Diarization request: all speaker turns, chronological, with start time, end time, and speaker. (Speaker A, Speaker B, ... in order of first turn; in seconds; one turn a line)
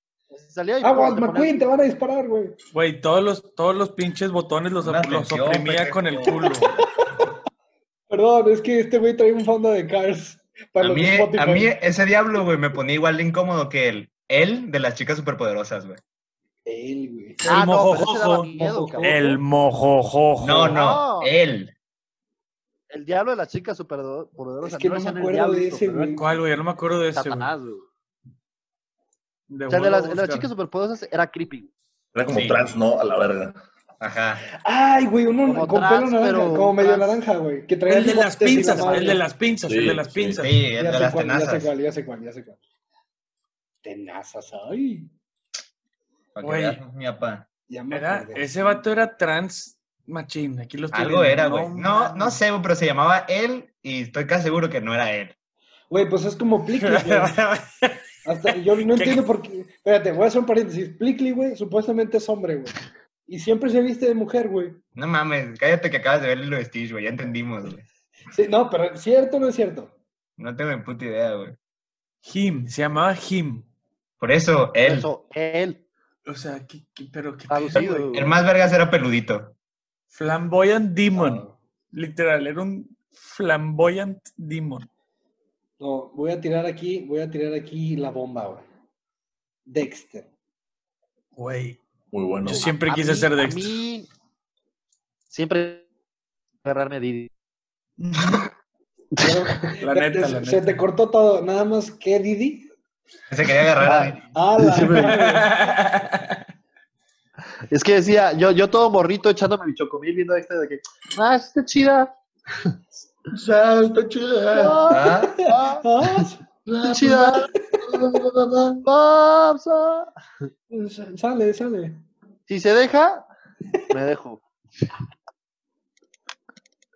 Speaker A: 0.3-1.7
Speaker B: 0.8-2.6
Speaker C: 2.7-6.8
Speaker D: 4.8-6.4
Speaker B: 6.3-7.3
Speaker B: 8.1-11.7
Speaker D: 10.8-16.0
Speaker B: 16.6-17.5
Speaker C: 17.4-18.5
Speaker A: 17.5-19.1
Speaker B: 18.5-19.4
Speaker C: 19.0-20.8
Speaker D: 20.4-21.7
Speaker A: 20.7-21.3
Speaker A: 22.9-26.1
Speaker B: 24.6-26.3
Speaker C: 26.1-27.5
Speaker A: 27.1-27.9
Speaker C: 29.5-30.5
Speaker A: 29.7-31.7
Speaker E: 32.1-33.6
Speaker D: 32.3-32.8
Speaker D: 34.0-34.5
Speaker B: 34.6-39.2
Speaker A: 35.5-37.2
Speaker C: 37.9-40.6
Speaker A: 38.5-39.2
Speaker E: 39.7-40.4
Speaker D: 40.4-41.7
Speaker B: 40.8-42.6
Speaker B: 43.8-45.1
Speaker D: 46.4-47.5
Speaker C: 46.4-46.8
Speaker B: 47.7-48.8
Speaker C: 47.9-52.4
Speaker D: 50.9-55.3
Speaker B: 55.9-57.4
Speaker C: 56.8-59.2
Speaker B: 58.2-62.8
Speaker B: 63.3-64.8
Speaker D: 65.0-67.8
Speaker B: 68.3-70.0
Speaker D: 70.4-71.6
Speaker C: 72.2-73.7
Speaker D: 74.2-75.1
Speaker A: 74.8-75.8
Speaker C: 76.2-78.1
Speaker A: 77.5-78.3
Speaker D: 77.8-79.5
Speaker C: 80.1-84.9
Speaker B: 81.1-81.5
Speaker B: 85.8-88.6
Speaker B: 89.7-90.3
Speaker C: 91.4-91.8
Speaker E: 92.1-92.7
Speaker C: 92.4-93.8
Speaker A: 92.5-94.1
Speaker A: 95.3-95.8
Speaker A: 96.6-97.3
Speaker B: 99.2-102.7
Speaker C: 99.8-100.8
Speaker D: 103.3-104.2
Speaker A: 103.8-105.3
Speaker B: 104.3-105.7
Speaker C: 105.0-106.4
Speaker A: 107.7-112.1
Speaker E: 113.3-114.9
Speaker A: 114.5-115.9
Speaker D: 114.9-115.4
Speaker B: 115.2-116.4
Speaker E: 116.6-117.5
Speaker A: 116.8-117.5
Speaker E: 118.0-118.6
Speaker A: 118.7-120.1
Speaker B: 120.7-122.0
Speaker A: 122.5-123.3
Speaker A: 123.9-124.4